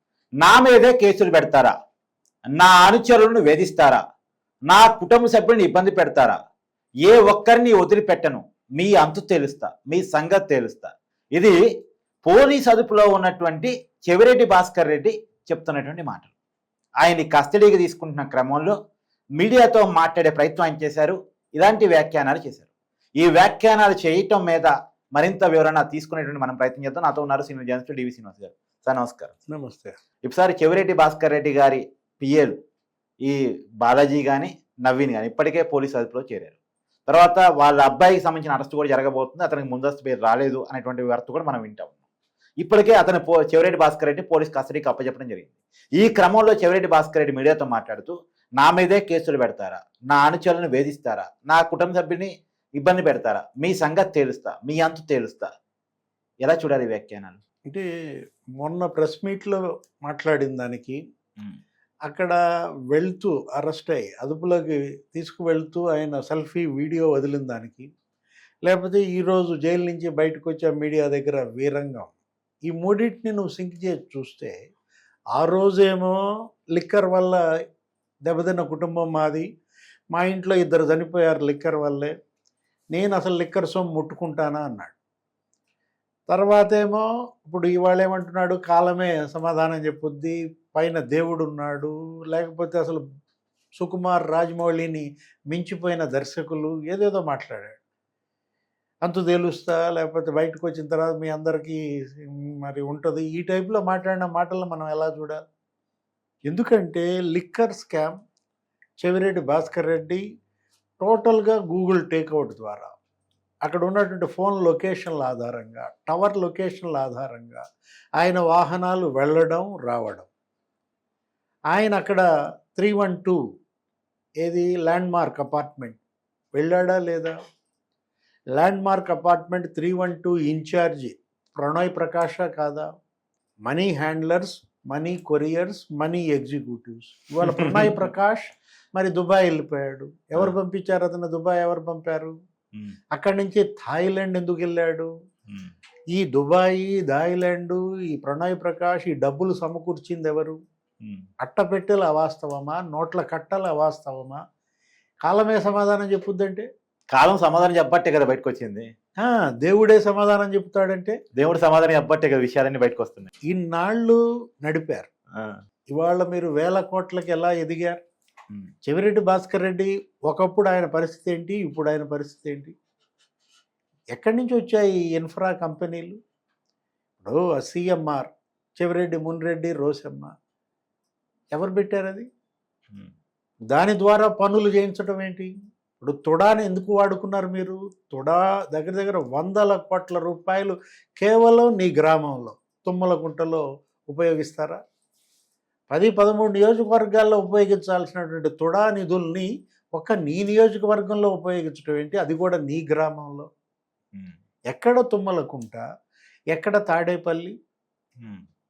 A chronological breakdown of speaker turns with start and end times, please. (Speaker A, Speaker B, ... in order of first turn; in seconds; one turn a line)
Speaker A: 0.4-1.7
Speaker A: 2.5-4.0
Speaker A: 4.7-6.4
Speaker A: 7.0-11.6
Speaker A: 12.2-16.3
Speaker A: 17.0-18.8
Speaker A: 19.4-22.6
Speaker A: 23.2-29.3
Speaker B: 29.5-30.0
Speaker A: 30.2-32.5
Speaker A: 33.2-36.5
Speaker A: 37.1-41.9
Speaker A: 42.6-55.5
Speaker A: 56.4-57.4
Speaker B: 58.6-61.0
Speaker B: 62.1-62.4
Speaker B: 62.9-67.9
Speaker B: 68.6-72.1
Speaker B: 72.7-74.5
Speaker B: 75.3-76.2
Speaker B: 76.7-77.4
Speaker B: 78.2-79.4
Speaker B: 80.1-82.1
Speaker B: 82.9-84.9
Speaker B: 86.3-93.0
Speaker B: 93.8-97.8
Speaker B: 99.0-105.4
Speaker B: 106.5-108.2
Speaker B: 109.0-110.2
Speaker B: 111.0-112.9
Speaker B: 113.7-117.6
Speaker B: 118.2-120.3
Speaker B: 121.7-122.2
Speaker B: 122.7-123.4
Speaker B: 124.4-126.0
Speaker B: 126.5-127.3
Speaker B: 128.6-132.9
Speaker B: 133.6-142.3
Speaker A: 137.4-138.1
Speaker B: 143.1-145.1
Speaker B: 146.1-150.6
Speaker B: 151.4-154.4
Speaker B: 155.2-156.7
Speaker A: 157.1-158.9
Speaker B: 159.2-161.2
Speaker A: 161.3-163.3
Speaker B: 163.5-165.1
Speaker B: 165.9-168.0
Speaker B: 168.8-172.7
Speaker B: 174.1-176.2
Speaker B: 177.2-180.3
Speaker B: 181.5-182.2
Speaker B: 183.7-194.8
Speaker B: 195.9-203.5
Speaker B: 204.7-205.8
Speaker B: 206.5-207.5